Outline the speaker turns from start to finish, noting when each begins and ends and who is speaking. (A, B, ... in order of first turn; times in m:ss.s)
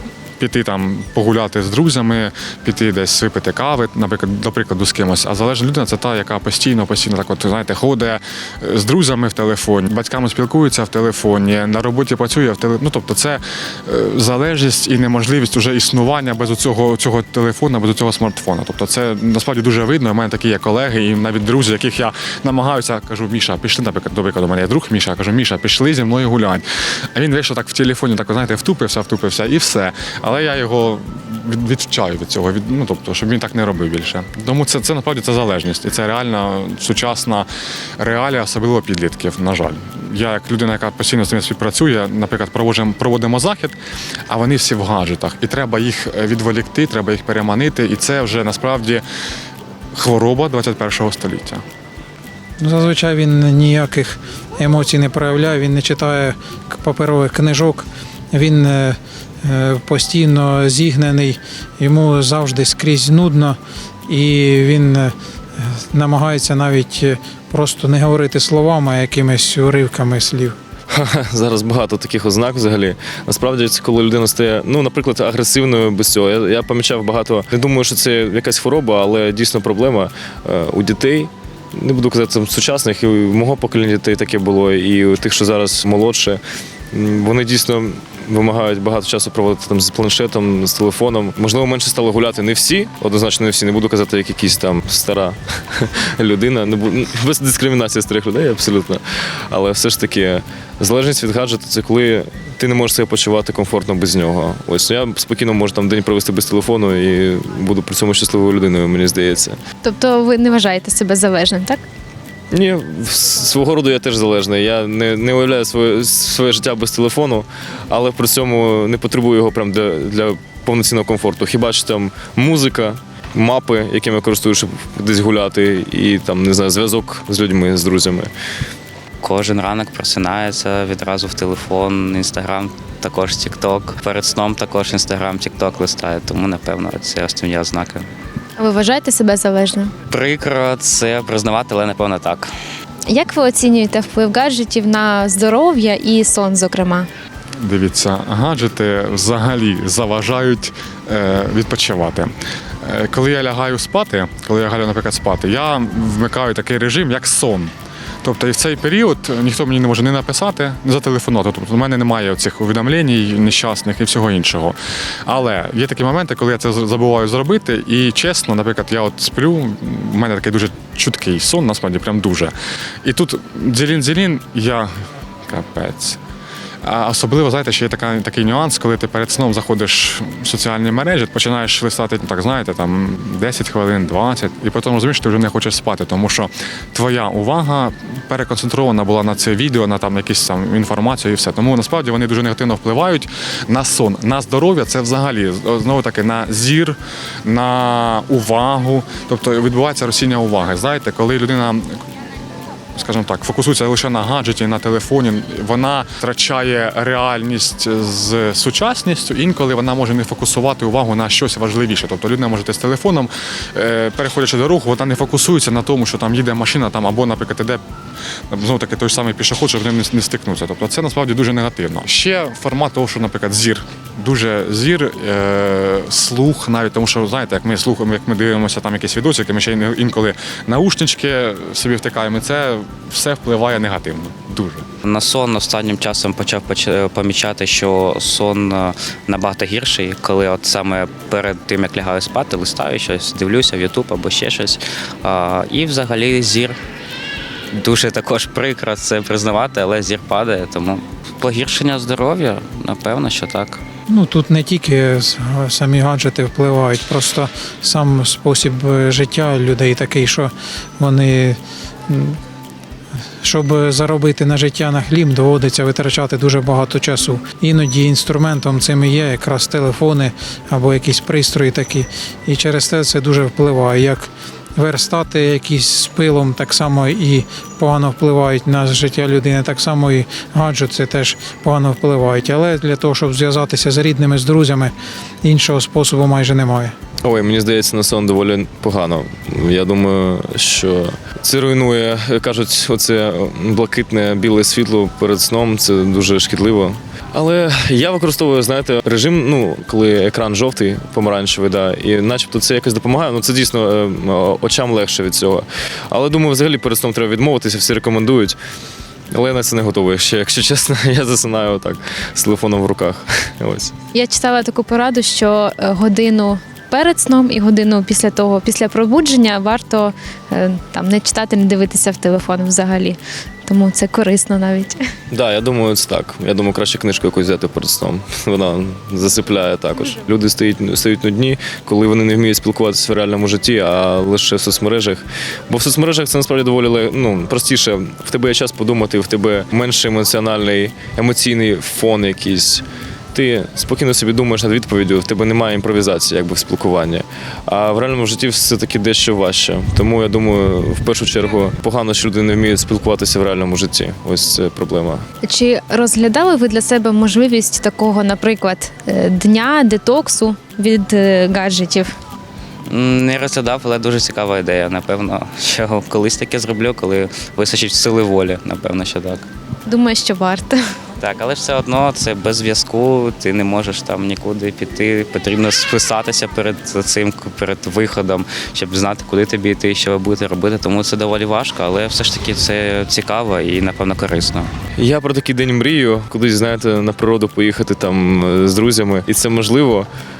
0:00.4-0:37.5 A
0:38.0-0:43.8 A
0:44.3-0:49.0 A
0:49.9-0:51.6 A
0:52.6-1:10.6 B
1:10.9-1:26.4 C
1:26.9-1:49.6 C
1:49.8-1:51.8 D
1:52.5-2:08.3 C
2:09.2-2:18.0 E
2:18.6-2:19.9 D
2:20.1-2:22.5 E
2:23.1-2:27.1 D
2:27.6-2:32.3 A
2:32.8-2:37.7 A
2:38.2-2:54.9 A
2:55.5-2:56.2 A
2:56.8-3:22.0 A
3:23.0-3:37.8 A
3:38.5-3:54.9 A
3:55.0-4:06.8 E
4:07.7-4:13.8 E
4:14.1-4:22.4 B
4:23.4-4:46.9 B
4:47.2-5:08.6 C
5:09.3-5:14.0 C
5:14.1-5:25.0 D
5:25.3-5:55.2 C
5:55.4-6:02.1 D
6:02.9-6:09.5 E
6:09.9-6:10.8 D
6:11.2-6:24.7 E
6:25.0-6:30.1 C